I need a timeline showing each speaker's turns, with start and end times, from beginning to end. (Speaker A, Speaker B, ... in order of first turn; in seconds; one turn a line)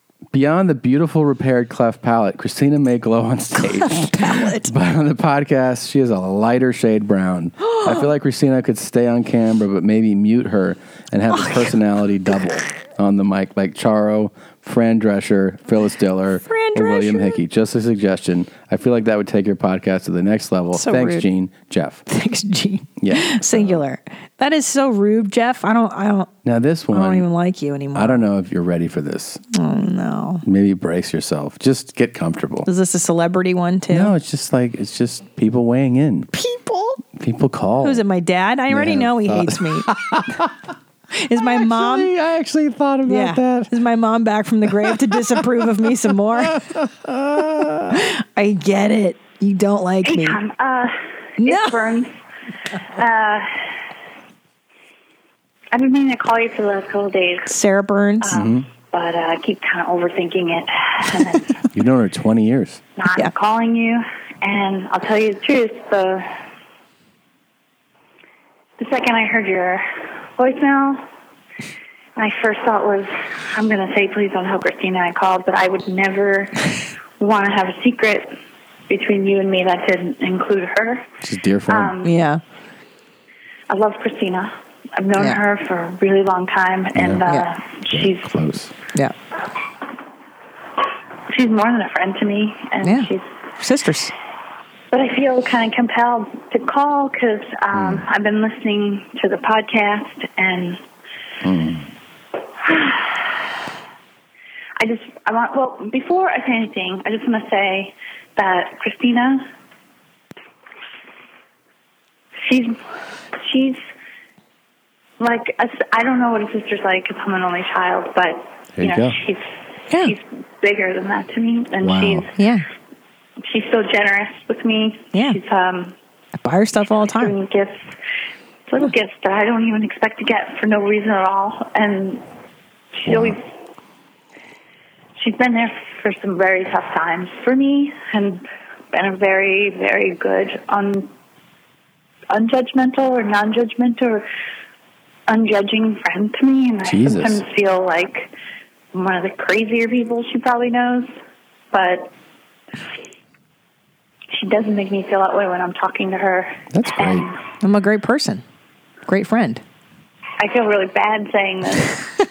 Speaker A: 0.3-22.1
Speaker B: 3.6-4.7
Speaker B: 7.7-8.1
Speaker B: 11.3-11.7
Speaker B: 16.4-17.4
Speaker B: 20.7-21.3
Speaker B: 22.1-26.3
Speaker A: 23.0-23.8
Speaker A: 26.4-27.3
Speaker B: 26.9-28.2
Speaker A: 27.9-29.4
Speaker B: 29.5-30.4
Speaker A: 30.4-32.7
Speaker B: 32.7-34.1
Speaker A: 33.9-36.3
Speaker B: 36.3-37.0
Speaker A: 37.1-38.0
Speaker B: 37.8-39.9
Speaker A: 38.7-40.5
Speaker B: 41.2-42.1
Speaker A: 41.5-43.7
Speaker B: 43.0-46.7
Speaker A: 46.5-48.0
Speaker B: 47.9-50.4
Speaker C: 50.0-52.1
Speaker B: 51.4-51.8
Speaker C: 53.0-53.5
Speaker C: 55.7-57.5
Speaker B: 57.5-58.4
Speaker C: 58.2-61.5
Speaker A: 58.3-58.6
Speaker A: 61.7-62.8
Speaker C: 63.0-66.3
Speaker C: 68.8-69.8
Speaker C: 70.4-71.0
Speaker C: 72.2-76.6
Speaker C: 77.2-78.3
Speaker C: 78.9-81.1
Speaker A: 81.2-82.0
Speaker C: 81.7-82.1
Speaker B: 82.0-82.4
Speaker C: 83.7-88.3
Speaker B: 85.2-85.4
Speaker A: 87.0-87.2
Speaker A: 87.9-88.7
Speaker C: 91.3-93.3
Speaker B: 92.8-94.1
Speaker C: 94.9-100.8
Speaker A: 97.7-98.1
Speaker A: 101.4-101.9
Speaker C: 102.6-103.2
Speaker C: 104.8-109.5
Speaker C: 112.5-112.8
Speaker C: 113.4-113.8
Speaker C: 115.2-119.4
Speaker A: 118.8-119.2
Speaker B: 119.9-120.1
Speaker C: 120.0-122.3
Speaker A: 121.8-122.3
Speaker B: 122.3-122.6
Speaker C: 123.4-125.9
Speaker B: 125.1-125.4
Speaker B: 126.4-127.4
Speaker C: 127.1-127.9
Speaker C: 128.7-132.2
Speaker C: 133.0-133.4
Speaker A: 133.1-133.3
Speaker C: 135.2-141.1
Speaker C: 142.3-144.2
Speaker C: 145.3-148.3
Speaker A: 146.8-147.4
Speaker C: 148.9-151.1
Speaker C: 151.7-152.1
Speaker C: 154.3-157.3
Speaker A: 156.7-157.3
Speaker B: 157.6-158.4
Speaker B: 159.1-159.6
Speaker C: 160.4-161.9